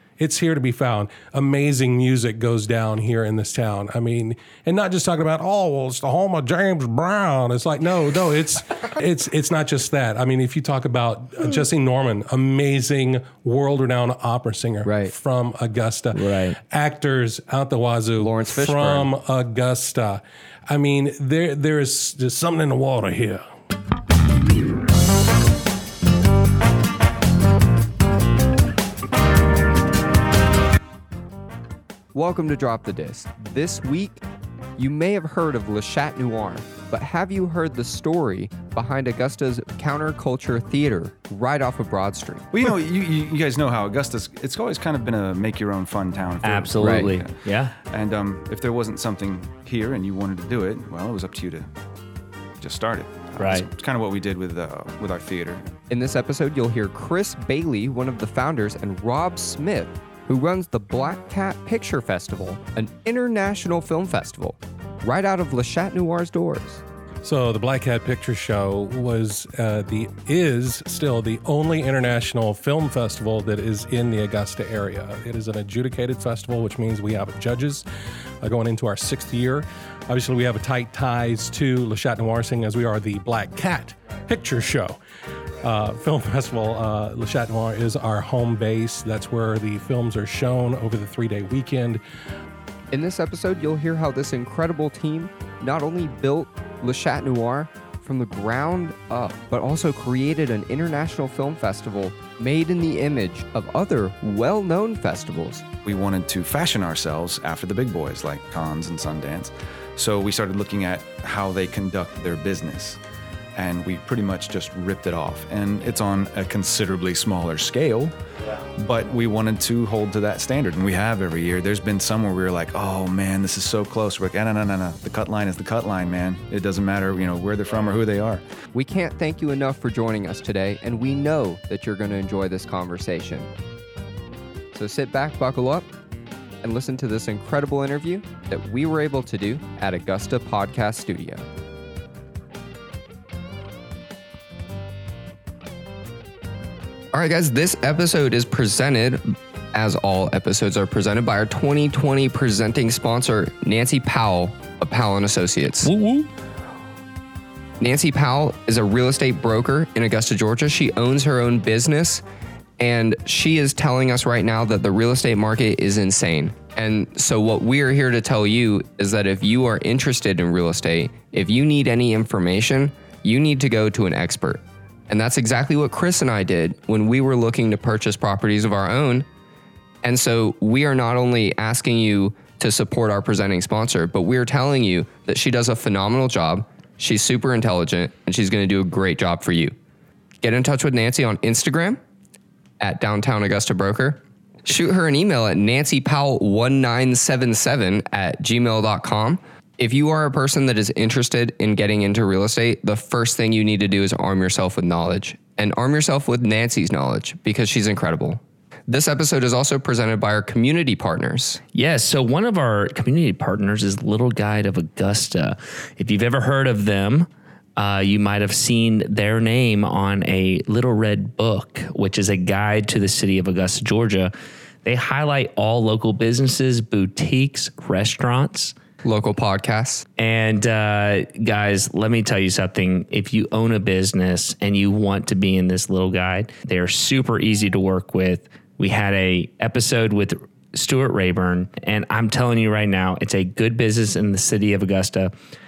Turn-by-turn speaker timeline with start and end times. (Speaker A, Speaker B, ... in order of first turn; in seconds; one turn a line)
Speaker A: 0.2-23.4
Speaker B: 14.8-15.1
Speaker C: 16.1-16.6
Speaker B: 18.2-19.1
Speaker B: 32.1-34.2
Speaker B: 34.8-42.5
Speaker D: 42.5-51.7
Speaker C: 46.4-47.7
Speaker B: 46.8-47.1
Speaker D: 52.6-55.7
Speaker C: 53.4-53.7
Speaker B: 55.9-66.8
Speaker A: 67.2-77.8
Speaker A: 78.4-85.0
Speaker A: 85.6-92.0
Speaker B: 92.9-105.6
Speaker D: 105.8-113.0
Speaker D: 113.5-128.4
Speaker B: 128.7-133.5
Speaker B: 134.7-135.9
Speaker B: 136.6-141.4
Speaker B: 147.1-155.9
Speaker C: 155.8-156.3
Speaker B: 157.8-162.2
Speaker B: 162.8-179.3
Speaker B: 180.0-189.7
Speaker B: 190.4-192.0
Speaker B: 192.8-211.6
Speaker C: 211.7-224.3
Speaker C: 224.8-228.7
Speaker B: 229.0-230.0
Speaker C: 230.2-245.3